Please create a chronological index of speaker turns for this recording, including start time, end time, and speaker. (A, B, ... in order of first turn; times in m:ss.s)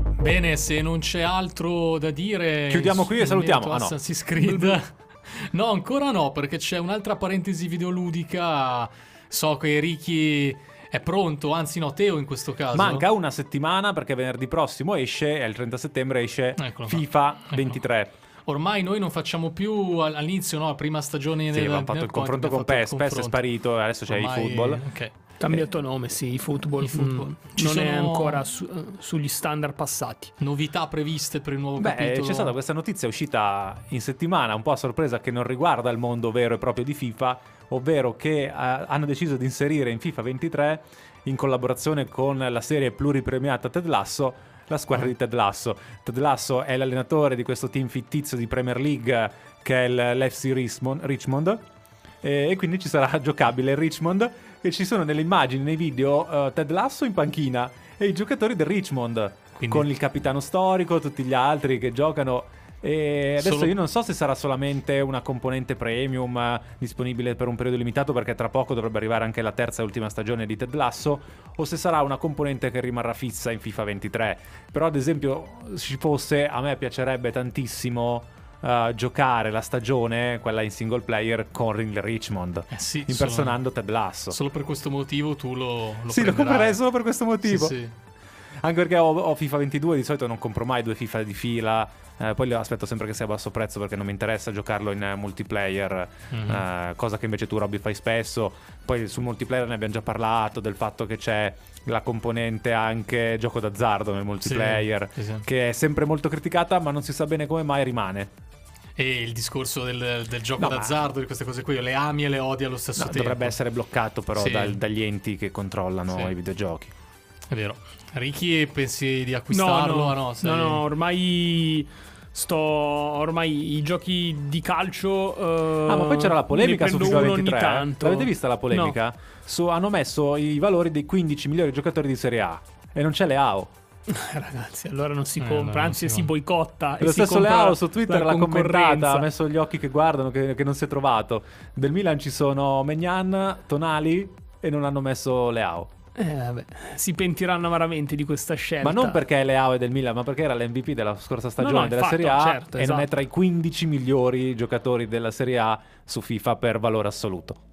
0:00.2-0:13.0 A
0:02.7-0:04.0 B
0:04.4-0:04.8 C
0:12.7-0:18.1 B
0:16.6-0:17.8 A
0:18.5-0:23.4 A
0:21.5-0:24.8 B
0:24.1-0:25.1 A
0:25.4-0:30.3 C
0:26.8-0:28.5 A
0:30.4-0:32.5 A
0:31.8-0:51.6 B
0:52.2-1:24.4 B
0:59.6-0:59.9 A
1:03.4-1:03.7 A
1:22.7-1:23.6 A
1:24.3-1:26.8 A
1:26.1-1:27.8 B
1:27.4-1:27.9 A
1:28.6-1:48.3 B
1:36.3-1:36.6 A
1:44.4-1:45.4 A
1:49.0-1:53.6 A
1:50.6-1:51.0 B
1:53.0-1:56.9 B
1:54.4-1:54.8 A
1:57.5-2:00.8 A
1:59.5-2:09.0 C
2:05.9-2:13.7 B
2:14.1-2:19.3 C
2:15.4-2:16.3 A
2:17.0-2:25.9 B
2:26.2-2:29.2 C
2:28.8-2:37.6 B
2:31.6-2:33.1 C